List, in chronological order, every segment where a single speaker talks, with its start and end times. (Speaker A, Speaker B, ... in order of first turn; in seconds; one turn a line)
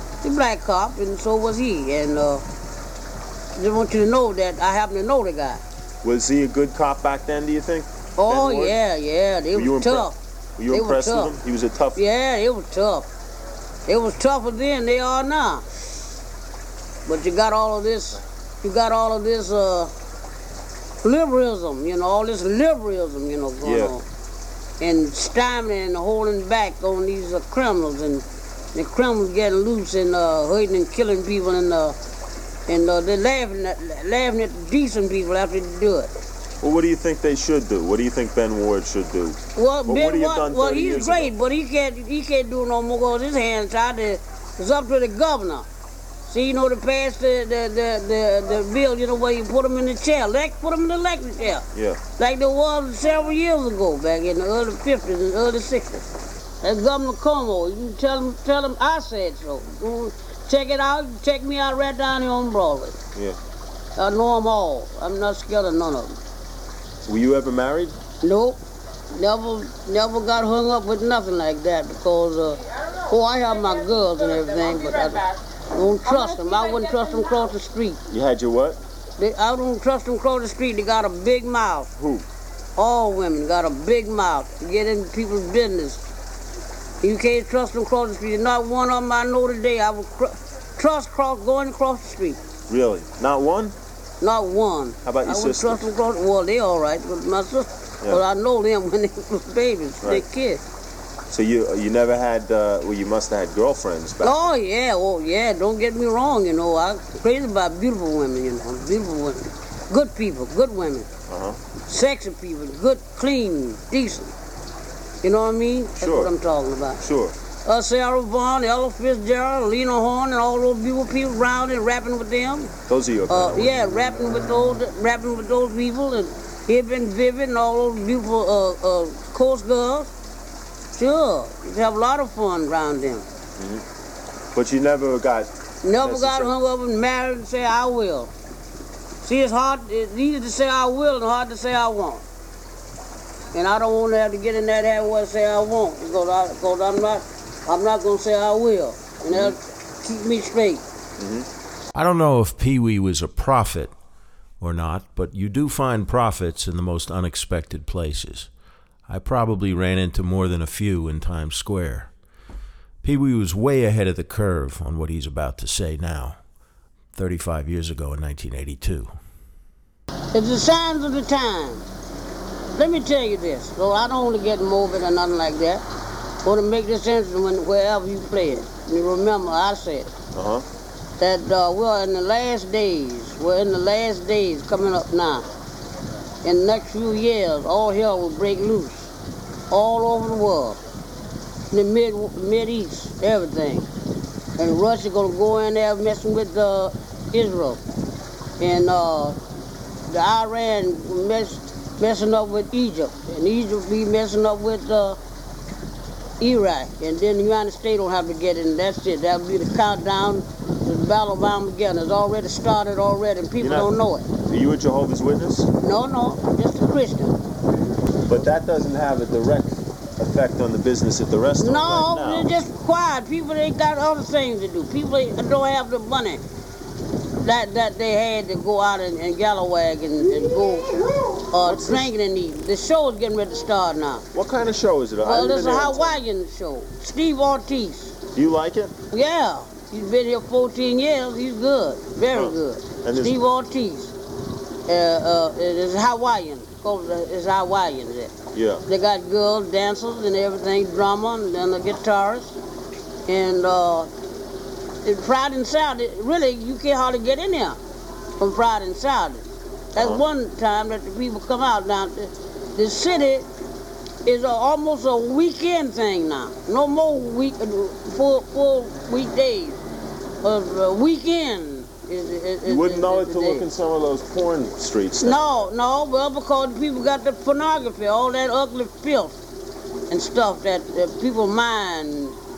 Speaker A: 0.2-2.4
Speaker A: 3.5-5.6
Speaker B: 6.0-8.8
Speaker A: 8.2-10.2
Speaker B: 9.5-12.0
Speaker A: 10.7-11.4
Speaker A: 11.9-13.1
Speaker A: 13.9-15.6
Speaker A: 17.1-19.9
Speaker A: 21.0-24.0
Speaker B: 23.6-23.9
Speaker A: 24.8-28.2
Speaker A: 28.7-31.9
Speaker A: 32.7-36.1
Speaker B: 36.6-41.3
Speaker A: 39.5-45.6
Speaker A: 46.3-51.6
Speaker A: 52.2-56.1
Speaker A: 56.6-63.0
Speaker A: 64.0-66.2
Speaker B: 67.0-67.9
Speaker A: 68.2-68.6
Speaker A: 69.1-78.0
Speaker B: 78.1-78.8
Speaker A: 79.2-81.9
Speaker B: 82.0-82.2
Speaker A: 82.8-86.0
Speaker A: 87.0-92.4
Speaker B: 92.7-93.7
Speaker A: 94.2-100.6
Speaker B: 95.0-95.8
Speaker B: 101.3-104.5
Speaker A: 104.2-111.1
Speaker B: 111.3-111.6
Speaker A: 111.9-114.3
Speaker A: 115.2-117.0
Speaker B: 116.0-116.3
Speaker B: 117.0-117.3
Speaker A: 117.7-122.7
Speaker B: 122.9-123.8
Speaker A: 123.3-130.1
Speaker A: 130.9-133.2
Speaker B: 133.6-133.8
Speaker B: 134.5-135.5
Speaker A: 135.8-138.3
Speaker B: 136.0-136.5
Speaker A: 139.2-142.2
Speaker A: 143.5-150.8
Speaker B: 149.3-149.6
Speaker B: 151.2-151.5
Speaker C: 151.9-153.9
Speaker C: 154.6-158.5
Speaker C: 159.1-162.1
Speaker C: 163.0-166.4
Speaker C: 167.1-169.1
Speaker A: 170.3-171.8
Speaker A: 172.7-175.8
Speaker A: 176.4-180.1
Speaker B: 180.3-180.6
Speaker A: 181.2-185.4
Speaker A: 186.4-189.1
Speaker A: 189.7-190.8
Speaker A: 191.7-193.9
Speaker A: 194.6-197.8
Speaker A: 198.6-199.4
Speaker A: 200.1-205.2
Speaker A: 206.4-214.3
Speaker B: 213.6-215.7
Speaker A: 215.8-217.4
Speaker B: 218.3-222.5
Speaker A: 221.6-226.4
Speaker A: 227.4-234.2
Speaker B: 231.6-232.1
Speaker B: 234.3-236.2
Speaker A: 235.2-238.1
Speaker B: 238.3-238.9
Speaker A: 239.1-244.1
Speaker B: 242.3-243.4
Speaker A: 244.9-248.3
Speaker B: 248.5-248.8
Speaker A: 248.9-252.6
Speaker A: 253.2-254.1
Speaker A: 255.0-257.8
Speaker A: 258.4-263.5
Speaker B: 259.9-260.2
Speaker A: 264.2-269.8
Speaker A: 270.4-273.6
Speaker B: 272.6-275.7
Speaker A: 275.2-279.3
Speaker A: 280.1-282.4